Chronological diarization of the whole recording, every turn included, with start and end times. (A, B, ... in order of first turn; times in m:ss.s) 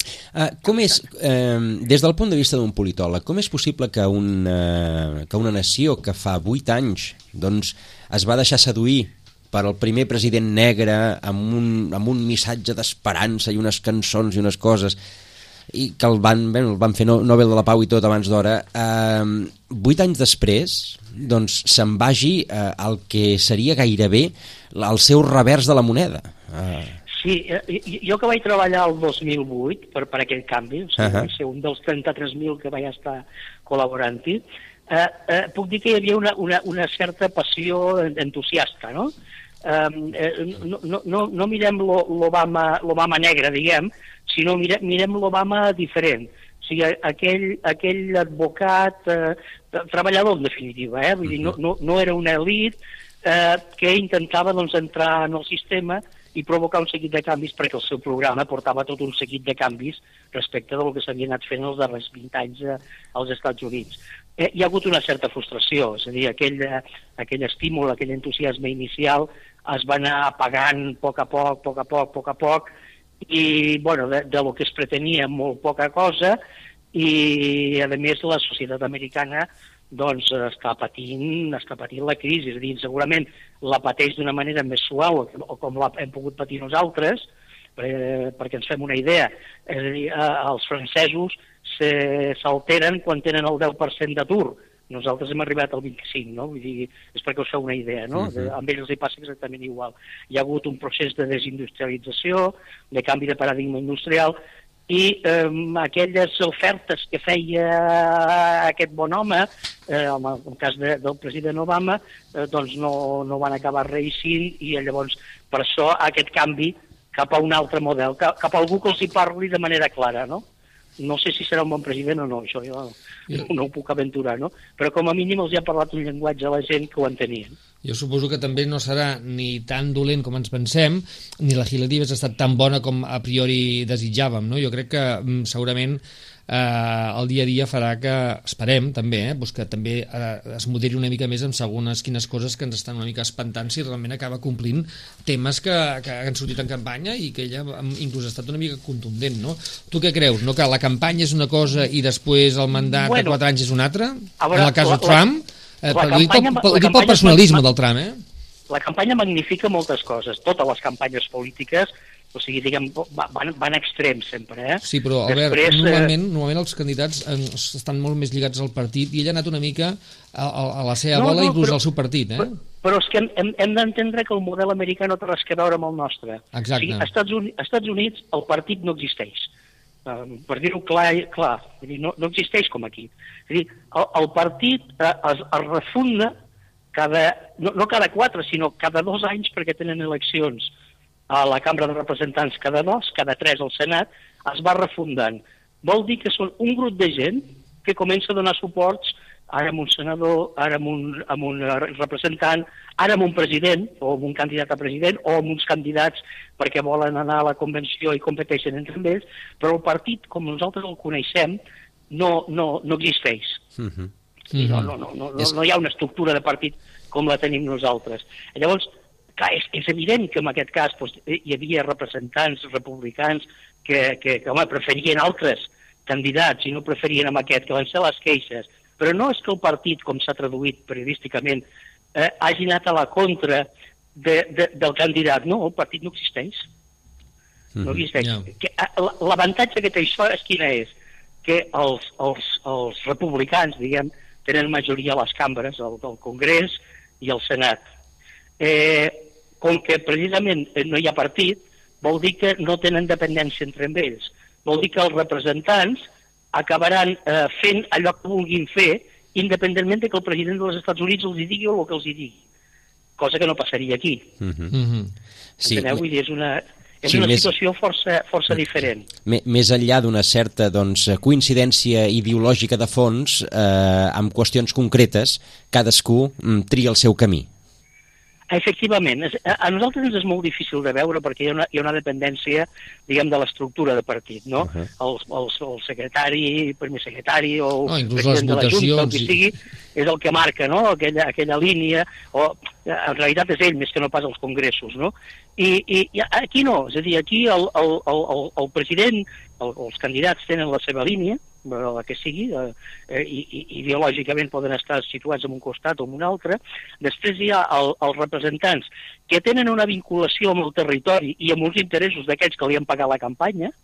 0:00.3-0:15.0 A
0:15.7-0:27.0 A
0:27.1-0:39.1 B
0:31.0-0:31.3 A
0:39.6-1:12.7 B
1:13.2-1:16.4 B
1:16.9-1:44.4 B
1:38.2-1:38.5 A
1:44.9-2:00.4 B
2:01.0-2:07.6 B
2:07.8-2:38.2 C
2:32.9-2:33.4 B
2:34.4-2:35.2 B
2:35.9-2:37.6 B
2:38.7-2:46.1 B
2:44.8-2:52.6 C
2:51.1-2:51.8 B
2:52.4-2:59.5 B
2:56.5-2:57.1 C
3:00.1-3:06.3 B
3:06.9-3:10.7 B
3:11.3-3:31.6 B
3:32.1-3:33.6 B
3:33.8-3:34.1 A
3:34.5-3:34.9 C
3:34.6-3:51.6 B
3:52.1-3:56.6 B
3:57.8-3:58.0 A
3:57.8-4:00.9 B
3:58.2-3:58.5 C
4:01.4-4:07.8 B
4:08.6-4:22.4 B
4:23.2-4:24.3 B
4:24.4-4:24.7 A
4:24.7-4:25.1 C
4:25.6-4:26.0 A
4:25.6-4:29.1 B
4:27.1-4:27.5 A
4:29.3-4:37.5 A
4:38.5-5:13.7 B
4:47.9-4:49.4 C